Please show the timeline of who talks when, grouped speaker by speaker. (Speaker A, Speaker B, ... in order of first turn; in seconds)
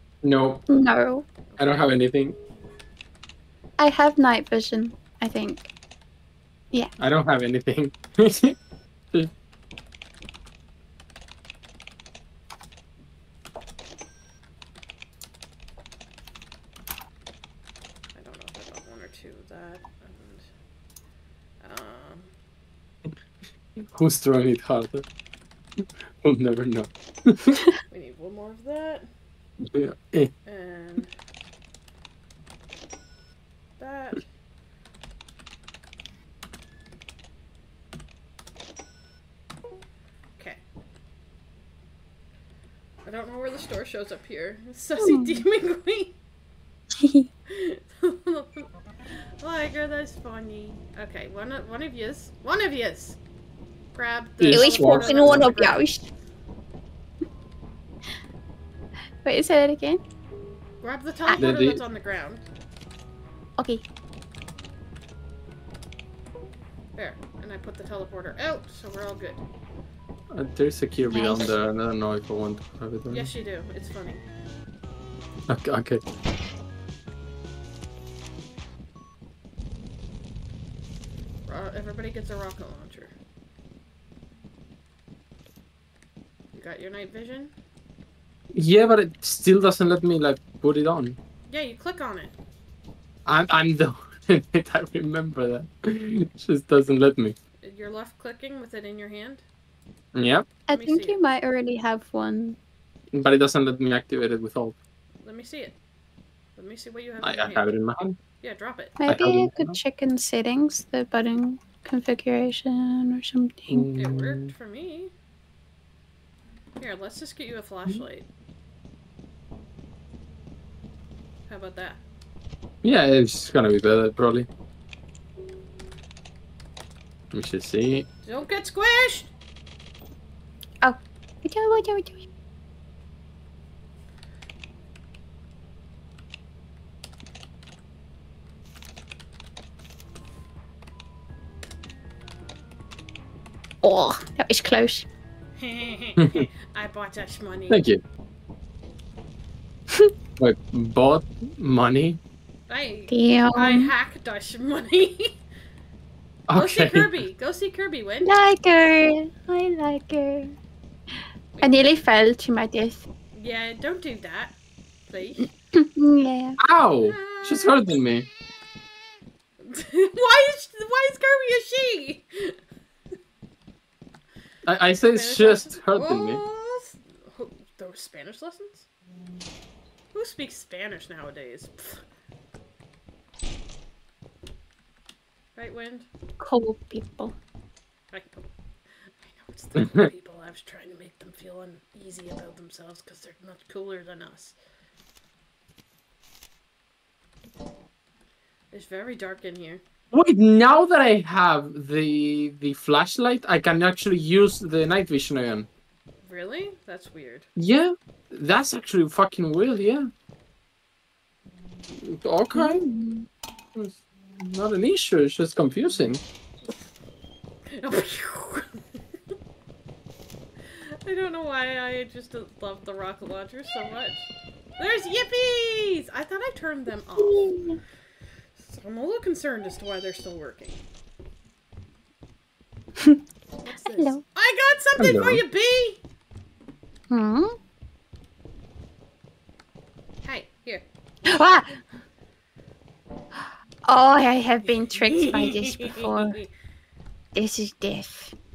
Speaker A: 0.2-0.6, 1.6-2.4, 7.0-8.6, 23.8-25.0, 26.2-27.6, 29.6-30.3, 54.4-55.6, 61.4-61.8, 70.3-73.3, 75.5-76.0, 88.5-91.2, 93.2-97.3, 100.1-100.5, 103.1-104.8, 107.2-108.2, 109.0-109.8, 113.7-114.5, 122.8-124.5, 127.3-128.1, 146.2-146.4, 147.7-148.0, 150.4-152.2, 156.5-157.1, 166.6-168.3, 174.6-176.4, 189.8-190.1, 200.1-205.7, 207.6-210.1, 211.9-212.8, 213.7-216.2, 235.0-235.4
Speaker B: 0.7-1.2, 3.8-5.7, 45.0-45.4, 47.0-47.3, 54.5-56.1, 59.2-60.0, 63.6-63.8, 71.1-71.5, 100.7-102.6, 109.0-113.8, 130.8-132.2, 143.8-145.1, 153.1-153.9, 158.2-160.6, 161.6-163.1, 165.7-166.6, 186.4-187.3, 212.5-213.2, 227.2-227.8, 233.8-234.2, 237.1-237.6, 241.2-241.8, 243.4-246.4, 247.3-248.3
Speaker C: 1.5-1.9, 18.1-20.5, 21.6-22.3, 27.9-29.1, 30.4-31.1, 33.8-34.3, 43.0-46.1, 47.5-48.7, 49.2-53.2, 53.9-55.9, 60.8-62.4, 67.0-69.4, 73.1-74.2, 81.5-83.1, 86.5-87.5, 91.5-92.3, 97.6-99.4, 100.7-101.2, 105.2-105.8, 106.5-107.7, 108.4-109.0, 113.9-115.1, 116.8-118.3, 121.5-122.0, 128.2-129.3, 145.6-147.8, 152.7-155.3, 156.6-158.4, 161.6-162.0, 163.3-164.6, 165.1-165.5, 167.0-167.8, 169.6-172.6, 175.0-178.9, 180.1-182.0, 185.6-186.1, 188.1-188.5, 189.2-194.5, 198.7-199.8, 206.2-207.5, 217.7-218.8, 220.7-227.6, 228.6-230.8, 233.6-236.0, 240.2-240.8, 244.6-246.5